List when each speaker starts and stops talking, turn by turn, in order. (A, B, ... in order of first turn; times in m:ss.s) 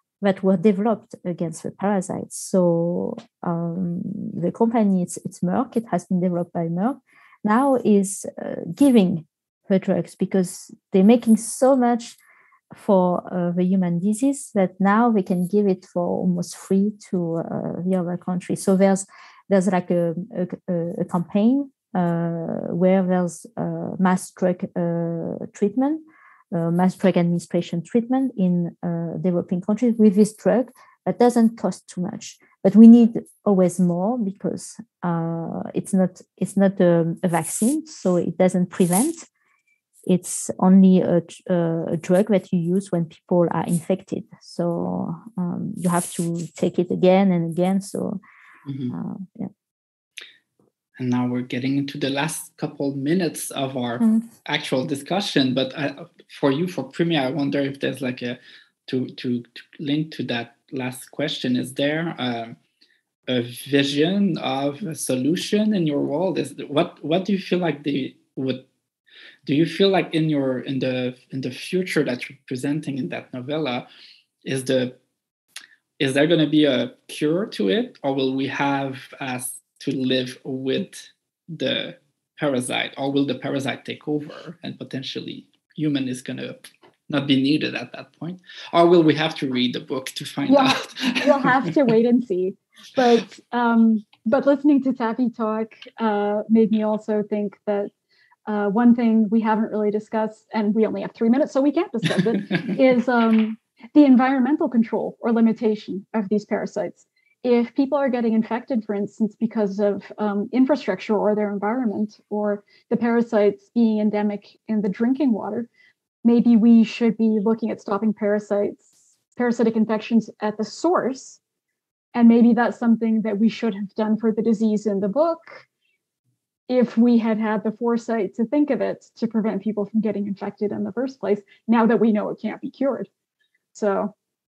0:00.2-0:12.2 A
0:12.7-0:39.3 A
0:40.1-0:48.2 A
0:48.7-0:48.9 B
0:48.9-0:49.5 A
0:51.0-1:02.6 B
0:54.0-0:54.3 A
1:03.3-1:08.7 B
1:09.5-1:13.9 B
1:14.4-1:15.0 B
1:16.0-1:31.7 B
1:30.5-1:37.9 C
1:38.5-1:55.7 C
1:56.2-2:01.4 C
2:02.1-2:05.6 C
2:06.7-2:13.1 C
2:13.7-2:14.1 C